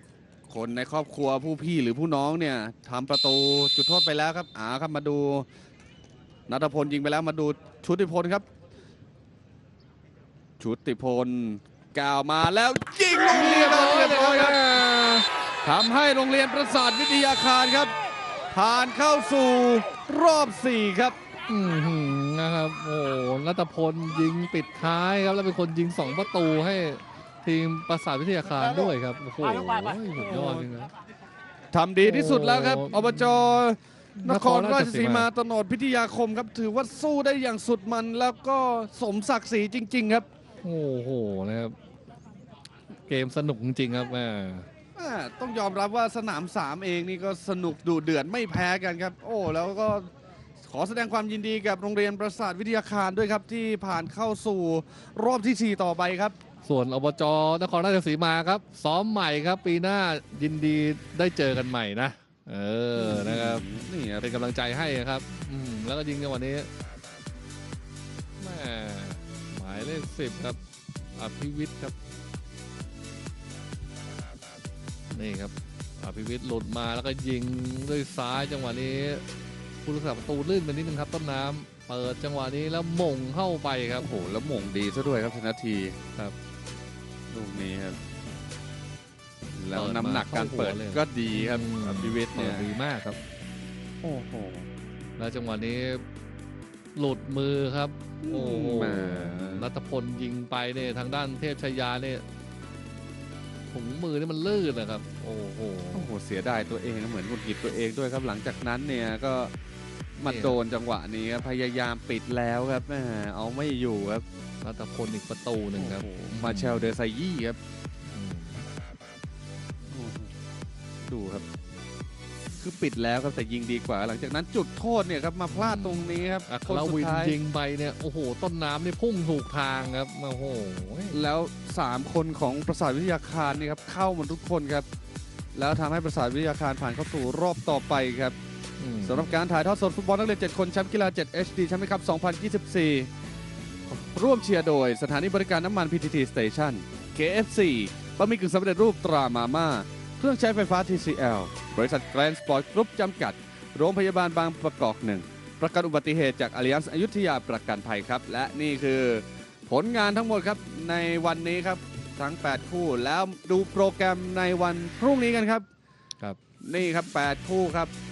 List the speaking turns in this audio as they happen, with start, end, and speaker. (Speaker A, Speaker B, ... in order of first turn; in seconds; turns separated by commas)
Speaker A: 0.5-5.5, Speaker A: 6.5-8.5, Speaker A: 10.6-14.7, Speaker B: 13.3-15.3, Speaker A: 15.6-17.9, Speaker A: 18.5-21.2, Speaker B: 21.5-30.9, Speaker A: 31.7-40.3, Speaker B: 32.0-33.6, Speaker B: 34.2-35.3, Speaker B: 40.6-41.8, Speaker B: 43.1-44.7, Speaker A: 45.0-50.1, Speaker A: 50.6-56.4, Speaker B: 56.6-63.6, Speaker A: 63.0-64.3, Speaker B: 64.2-66.7, Speaker B: 68.4-70.6, Speaker B: 71.2-72.0, Speaker B: 75.1-79.2, Speaker B: 79.8-84.1, Speaker A: 84.0-86.0, Speaker A: 87.3-88.0, Speaker A: 89.5-92.7, Speaker B: 89.7-93.2, Speaker A: 94.0-94.7, Speaker B: 95.2-96.0, Speaker B: 97.0-102.2, Speaker A: 98.2-99.7, Speaker B: 103.7-106.1, Speaker A: 105.9-109.5, Speaker A: 110.2-114.2, Speaker B: 110.2-110.6, Speaker B: 114.6-116.9, Speaker A: 115.8-117.6, Speaker B: 118.1-118.6, Speaker A: 119.9-120.3, Speaker A: 121.0-121.5, Speaker A: 122.6-127.4, Speaker B: 125.5-131.2, Speaker A: 131.1-134.9, Speaker A: 135.6-138.4, Speaker B: 138.8-139.3, Speaker A: 139.0-143.1, Speaker A: 143.9-165.7, Speaker A: 166.6-167.9